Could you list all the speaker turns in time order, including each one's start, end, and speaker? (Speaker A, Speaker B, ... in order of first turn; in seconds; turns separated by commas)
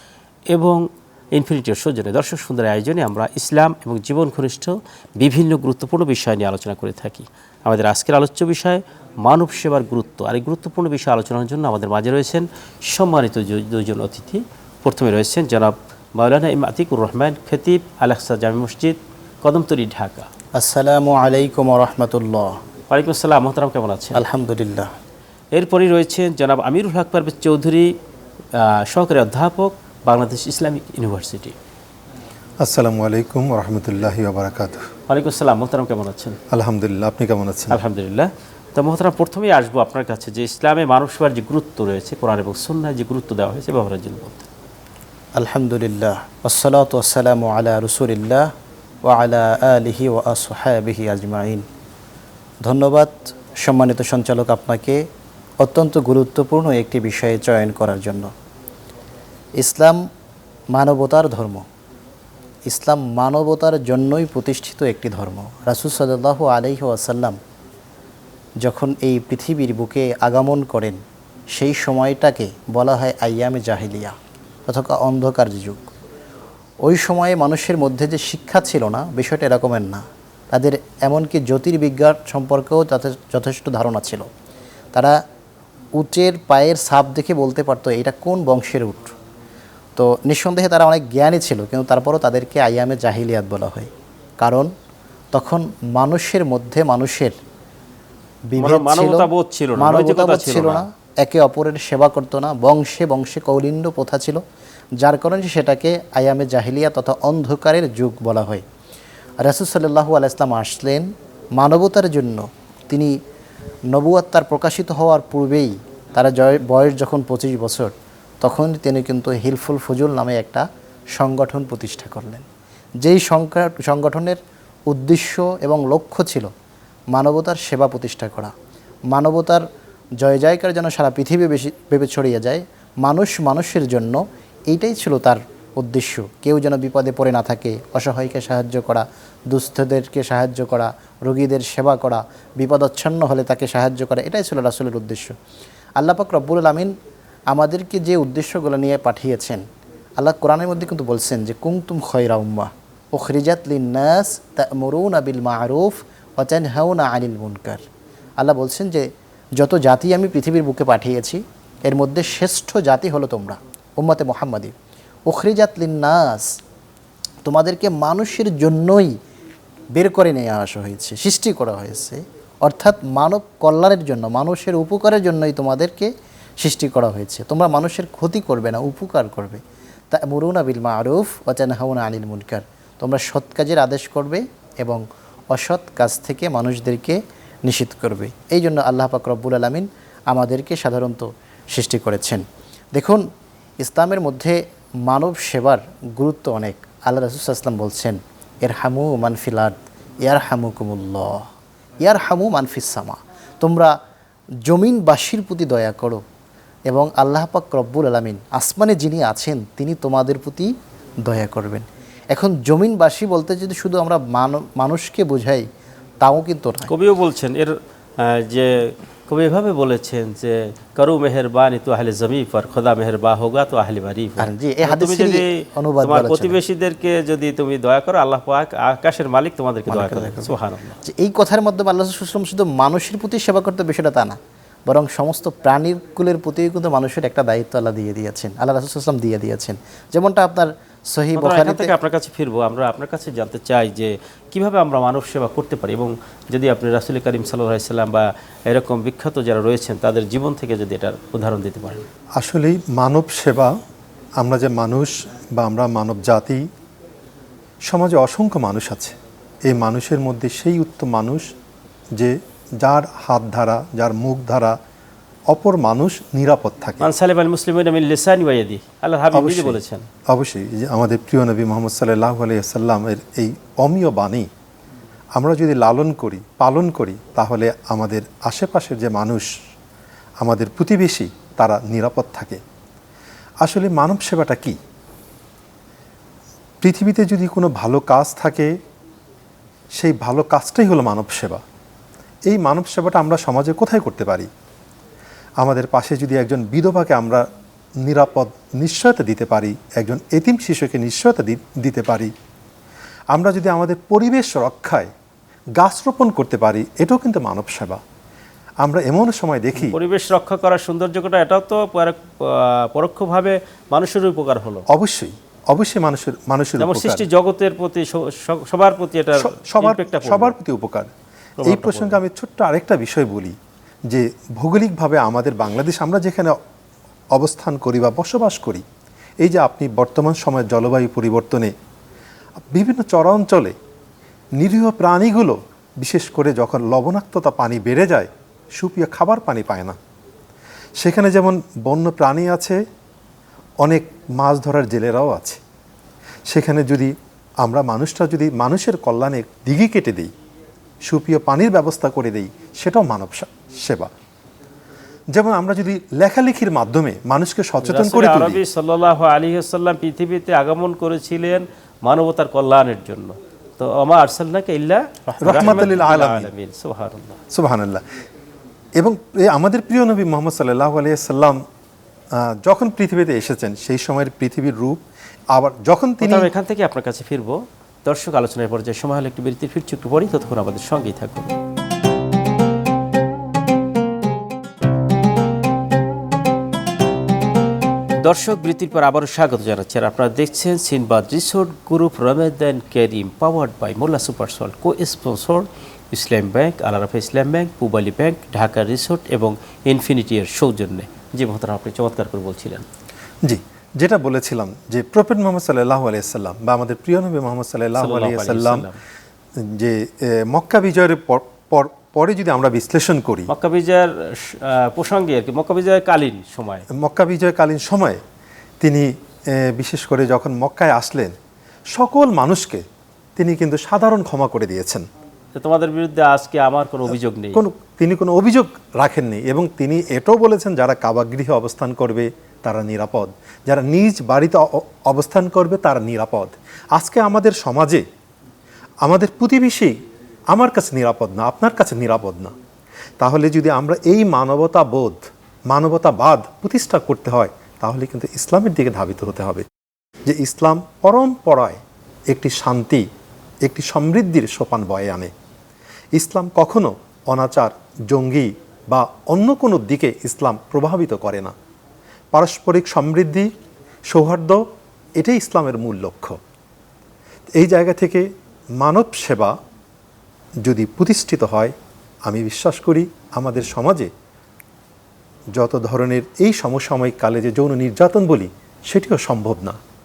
Speaker A: 0.5-20.3, Speaker B: 20.6-22.5, Speaker A: 22.9-24.2, Speaker B: 24.1-24.9, Speaker A: 25.5-27.9, Speaker A: 28.6-31.5, Speaker C: 32.6-34.8, Speaker A: 35.1-36.4, Speaker C: 36.5-37.8, Speaker A: 37.7-44.5, Speaker B: 45.4-48.5, Speaker B: 49.0-51.6, Speaker B: 52.6-55.0, Speaker B: 55.6-58.3, Speaker B: 59.6-60.0, Speaker B: 60.7-61.6, Speaker B: 62.7-67.4, Speaker B: 68.6-71.0, Speaker B: 71.5-74.1, Speaker B: 74.7-75.9, Speaker B: 76.8-84.3, Speaker B: 86.0-89.1, Speaker B: 90.0-94.7, Speaker B: 95.3-97.3, Speaker B: 98.5-104.4, Speaker A: 98.6-100.8, Speaker B: 105.0-108.6, Speaker B: 109.4-113.1, Speaker B: 113.9-120.6, Speaker B: 121.2-122.4, Speaker B: 123.0-126.5, Speaker B: 127.1-128.5, Speaker B: 129.1-129.6, Speaker B: 130.2-145.3, Speaker B: 146.0-146.9, Speaker B: 147.5-149.6, Speaker B: 150.2-157.8, Speaker B: 158.4-164.7, Speaker B: 165.3-166.5, Speaker B: 167.4-169.1, Speaker B: 169.9-179.6, Speaker B: 180.1-192.4, Speaker B: 192.9-193.2, Speaker B: 193.8-201.4, Speaker B: 202.0-203.9, Speaker B: 204.7-206.2, Speaker B: 206.9-210.7, Speaker B: 211.2-215.6, Speaker B: 216.2-216.9, Speaker A: 216.9-231.0, Speaker B: 224.4-226.6, Speaker B: 229.9-241.9, Speaker A: 241.3-252.0, Speaker C: 252.4-253.7, Speaker C: 254.4-256.6, Speaker C: 257.9-259.1, Speaker C: 259.7-261.5, Speaker C: 262.2-264.8, Speaker C: 265.5-267.0, Speaker A: 267.0-270.1, Speaker C: 269.3-274.5, Speaker C: 275.4-279.5, Speaker C: 280.4-282.6, Speaker C: 283.6-284.8, Speaker C: 286.8-288.7, Speaker C: 290.0-291.6, Speaker C: 292.5-294.5, Speaker C: 295.6-297.4, Speaker C: 298.0-302.3, Speaker C: 303.3-305.1, Speaker C: 305.8-308.0, Speaker C: 308.8-310.0, Speaker A: 309.8-314.8, Speaker C: 314.9-317.2, Speaker A: 316.8-320.6, Speaker C: 319.4-321.1, Speaker A: 321.6-322.2, Speaker C: 321.6-323.5, Speaker C: 324.1-326.6, Speaker C: 327.3-328.8, Speaker C: 329.4-331.7, Speaker C: 332.7-333.7, Speaker C: 334.6-340.0, Speaker C: 341.0-342.8, Speaker C: 343.8-345.6, Speaker C: 346.5-350.3, Speaker C: 351.1-354.1, Speaker C: 355.3-358.6, Speaker A: 357.8-367.4, Speaker C: 365.4-366.5, Speaker C: 367.5-368.0, Speaker C: 369.0-371.6, Speaker C: 372.4-375.0, Speaker C: 375.5-376.5, Speaker A: 376.2-381.5, Speaker A: 388.2-402.9, Speaker C: 403.4-408.8, Speaker A: 408.0-409.0, Speaker C: 409.7-413.5, Speaker A: 413.5-416.9, Speaker C: 416.9-418.2, Speaker C: 418.8-421.3, Speaker C: 421.9-422.8, Speaker C: 423.4-425.1, Speaker A: 425.6-427.6, Speaker C: 427.5-438.0, Speaker C: 439.0-439.9, Speaker C: 440.5-442.5, Speaker C: 443.2-449.6, Speaker C: 450.3-451.8, Speaker C: 452.3-453.0, Speaker C: 453.6-455.3, Speaker C: 456.1-461.5, Speaker C: 462.3-463.5, Speaker C: 464.1-464.6, Speaker C: 465.2-466.4, Speaker C: 467.6-468.3, Speaker C: 468.8-469.5, Speaker C: 470.6-471.7, Speaker C: 472.3-474.1, Speaker C: 475.5-479.8